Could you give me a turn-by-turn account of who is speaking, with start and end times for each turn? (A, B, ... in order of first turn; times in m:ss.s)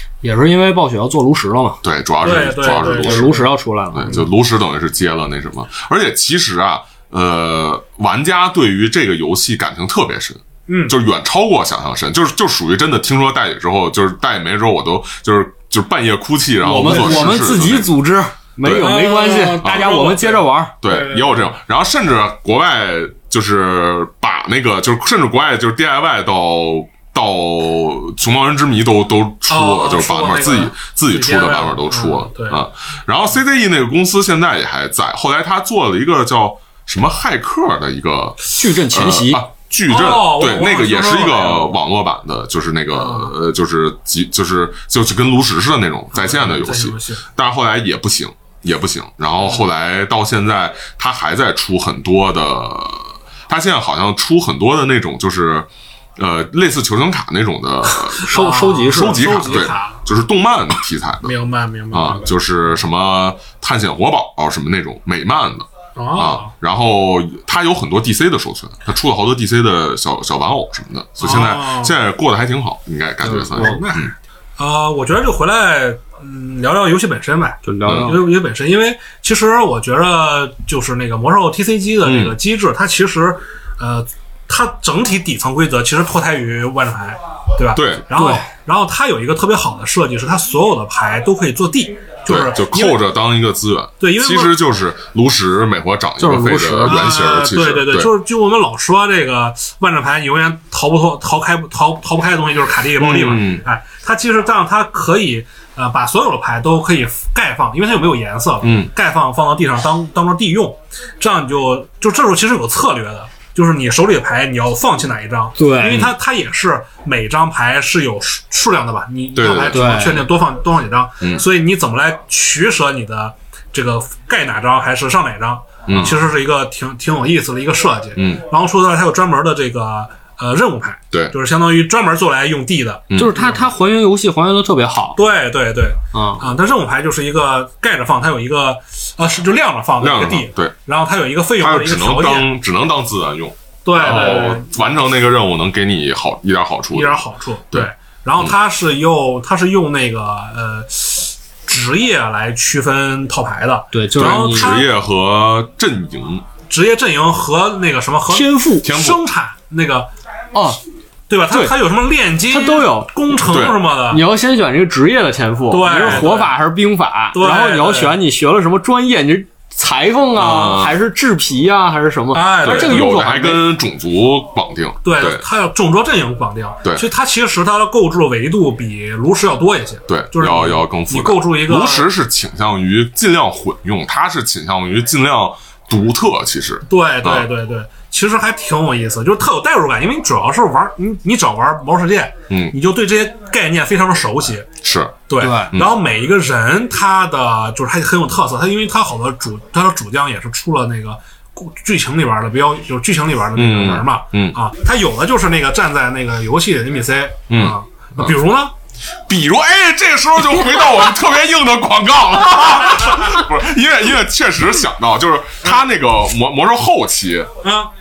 0:00.2-0:01.8 A
0:01.8-0:17.9 B
0:02.2-0:03.5 C
0:02.8-0:04.2 A
0:10.7-0:10.9 C
0:16.6-0:20.8 A
0:16.8-0:17.4 C
0:18.6-0:18.9 B
0:18.7-0:21.5 C
0:20.8-1:01.4 B
0:29.5-0:32.6 C
0:38.5-0:39.4 A
0:39.9-0:41.7 C
0:42.9-0:43.3 C
0:46.1-0:47.2 C
0:57.9-0:59.4 A
0:58.3-1:00.0 C
1:01.2-1:02.3 C
1:01.9-1:14.1 B
1:06.0-1:06.5 C
1:11.2-1:11.9 C
1:13.2-1:13.8 A
1:13.5-1:33.0 C
1:17.6-1:18.2 A
1:17.8-1:18.2 B
1:22.0-1:22.4 B
1:27.7-1:28.1 B
1:28.1-1:28.4 A
1:32.3-1:38.1 B
1:34.0-1:34.6 C
1:36.2-1:37.1 A
1:36.8-2:13.7 C
1:43.0-1:43.6 B
1:48.6-1:48.9 B
1:55.6-1:56.1 A
1:59.3-2:00.1 B
1:59.6-2:00.3 A
2:05.9-2:06.2 B
2:08.2-2:08.4 B
2:13.1-2:13.4 B
2:13.2-2:15.2 A
2:15.2-2:22.5 C
2:16.1-2:16.5 A
2:20.0-2:20.7 B
2:21.6-2:28.5 B
2:23.8-2:24.7 C
2:26.9-2:34.9 C
2:33.9-2:34.8 A
2:34.2-2:36.4 B
2:36.7-2:40.1 C
2:38.3-2:38.9 A
2:38.8-2:39.2 B
2:40.5-2:40.8 A
2:41.3-2:44.2 C
2:41.5-2:41.7 A
2:42.5-2:43.2 A
2:43.4-2:43.8 B
2:44.1-2:53.7 A
2:45.7-2:46.6 C
2:47.3-2:48.2 C
2:50.4-2:51.0 B
2:52.3-2:53.1 C
2:52.6-2:55.4 B
2:55.0-3:02.1 C
3:00.1-3:07.5 B
3:06.9-3:14.7 C
3:12.5-3:12.7 B
3:14.8-3:15.9 B
3:15.3-3:28.7 C
3:15.4-3:15.7 A
3:23.6-3:24.6 B
3:27.5-3:28.3 B
3:29.3-3:37.5 B
3:37.6-3:37.9 C